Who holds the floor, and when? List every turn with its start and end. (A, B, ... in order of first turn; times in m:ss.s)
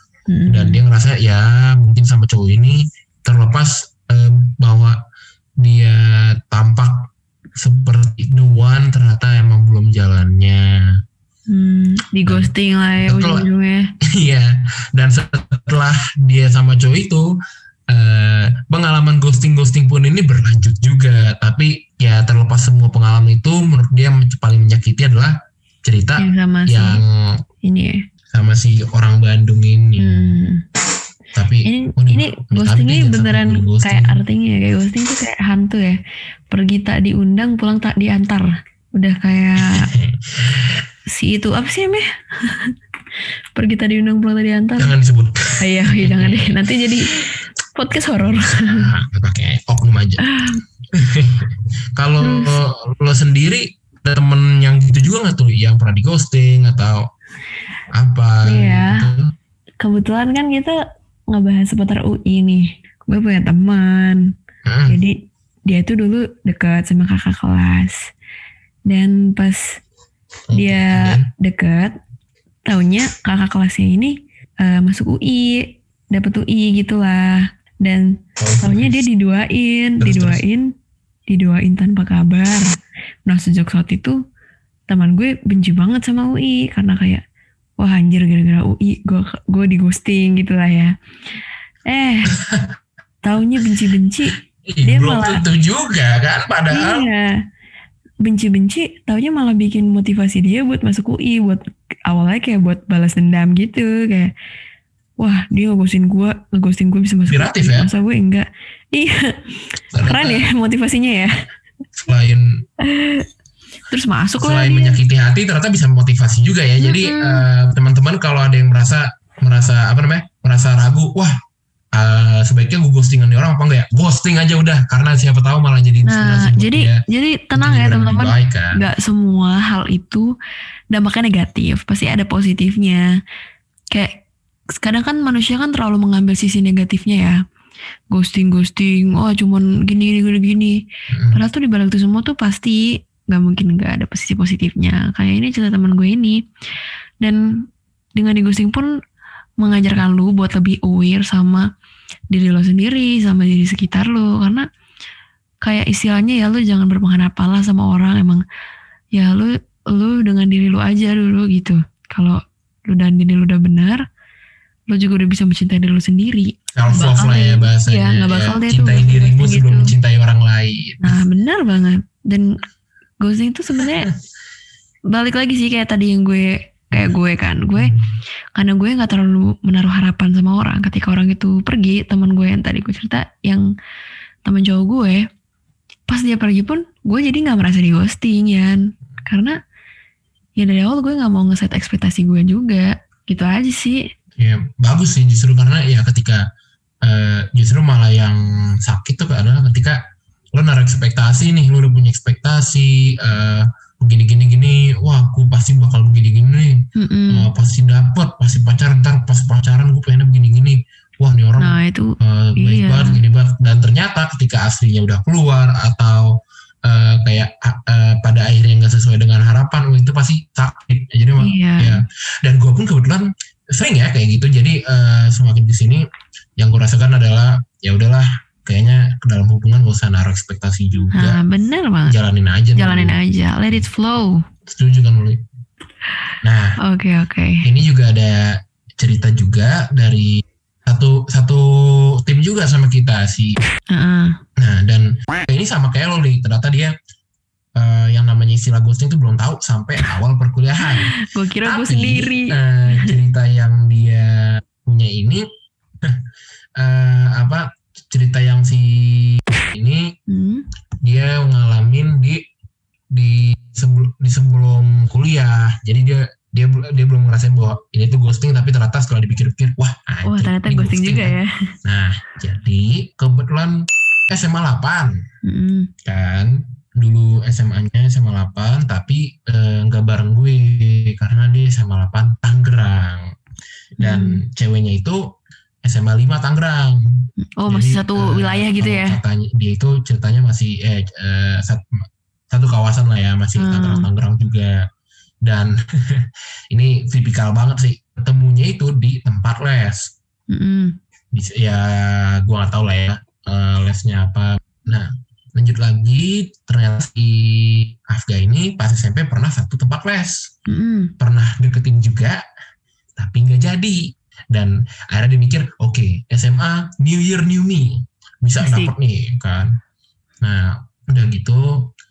0:00.3-0:00.8 A
0:00.5-0:05.0 B
0:05.6-0:10.7 B
0:11.5-0:13.9 A
0:12.2-0:12.5 B
0:13.0-0:13.5 B
0:14.1-0:17.3 B
0:17.9-0:27.4 B
0:26.2-0:27.0 A
0:27.6-0:28.0 A
0:28.3-0:30.4 B
0:30.0-0:30.6 A
0:31.3-0:34.2 B
0:31.6-0:39.9 A
0:39.6-0:40.8 B
0:41.1-0:42.7 A
0:43.5-0:44.9 A
0:44.8-0:46.6 B
0:45.6-0:47.2 A
0:47.7-0:48.9 A
0:48.3-0:50.3 B
0:50.2-0:50.6 A
0:50.9-0:57.0 B
0:52.2-0:52.6 A
0:57.9-0:59.3 B
0:58.4-0:59.0 A
0:59.8-1:00.8 A
1:01.3-1:04.3 A
1:04.6-1:05.0 B
1:04.9-1:08.1 A
1:08.8-1:09.8 A
1:10.5-1:11.3 B
1:10.5-1:11.9 A
1:12.6-1:20.7 A
1:18.4-1:19.0 B
1:20.0-1:20.4 B
1:21.3-1:22.7 A
1:23.2-1:24.2 A
1:24.9-1:27.2 A
1:27.8-1:30.9 A
1:31.8-1:32.3 A
1:32.3-1:32.7 B
1:33.2-1:35.4 A
1:34.6-1:37.1 B
1:36.7-1:37.3 A
1:38.2-1:44.3 A
1:45.2-1:51.3 A
1:47.3-1:47.9 B
1:49.9-1:50.5 B
1:52.0-1:52.4 B
1:52.8-1:53.2 A
1:53.9-1:55.0 A
1:54.4-2:01.3 B
1:56.8-1:57.4 A
2:01.9-2:07.0 B
2:06.0-2:10.3 A
2:07.6-2:08.8 B
2:10.9-2:13.0 A
2:13.9-2:14.2 A
2:14.7-2:17.4 A
2:18.1-2:26.4 A
2:21.1-2:21.4 B
2:27.2-2:28.9 A
2:29.6-2:31.7 A
2:32.3-2:34.6 A
2:35.6-2:38.4 A
2:39.1-2:44.0 A
2:44.9-2:49.9 A
2:46.7-2:51.2 B
2:51.0-2:52.5 A
2:53.2-2:54.1 A
2:55.1-2:57.9 A
2:57.8-2:58.2 B
2:58.5-3:03.7 A
3:04.4-3:05.3 A
3:06.1-3:09.6 A
3:10.6-3:14.1 A
3:14.4-3:16.4 B
3:17.0-3:20.0 B
3:20.5-3:36.3 B
3:27.0-3:27.5 A
3:31.6-3:33.2 A
3:36.8-3:46.0 B
3:41.4-3:42.0 A
3:46.6-3:51.4 B
3:51.1-3:52.2 A
3:52.1-3:53.2 B
3:52.8-3:54.4 A
3:54.6-3:55.4 B
3:56.4-3:56.8 B
3:56.8-3:57.6 A
3:57.6-4:03.6 B
4:03.9-4:04.4 A
4:04.6-4:06.9 B
4:07.8-4:15.4 B
4:10.8-4:13.2 A
4:16.8-4:20.1 B
4:20.3-4:20.6 A
4:21.0-4:22.4 B
4:23.1-4:35.2 B
4:30.2-4:31.6 A
4:35.4-4:35.9 A
4:36.0-4:43.3 B
4:44.0-4:44.4 A
4:44.0-4:45.2 B
4:45.8-4:51.8 B
4:47.6-4:49.2 A
4:52.5-4:54.8 B
4:53.6-4:54.1 A
4:55.4-5:00.1 B
5:00.5-5:01.0 A
5:01.3-5:10.5 B
5:10.7-5:11.1 A
5:11.2-5:12.4 B
5:13.2-5:19.7 B
5:18.6-5:18.9 A
5:20.4-5:21.8 B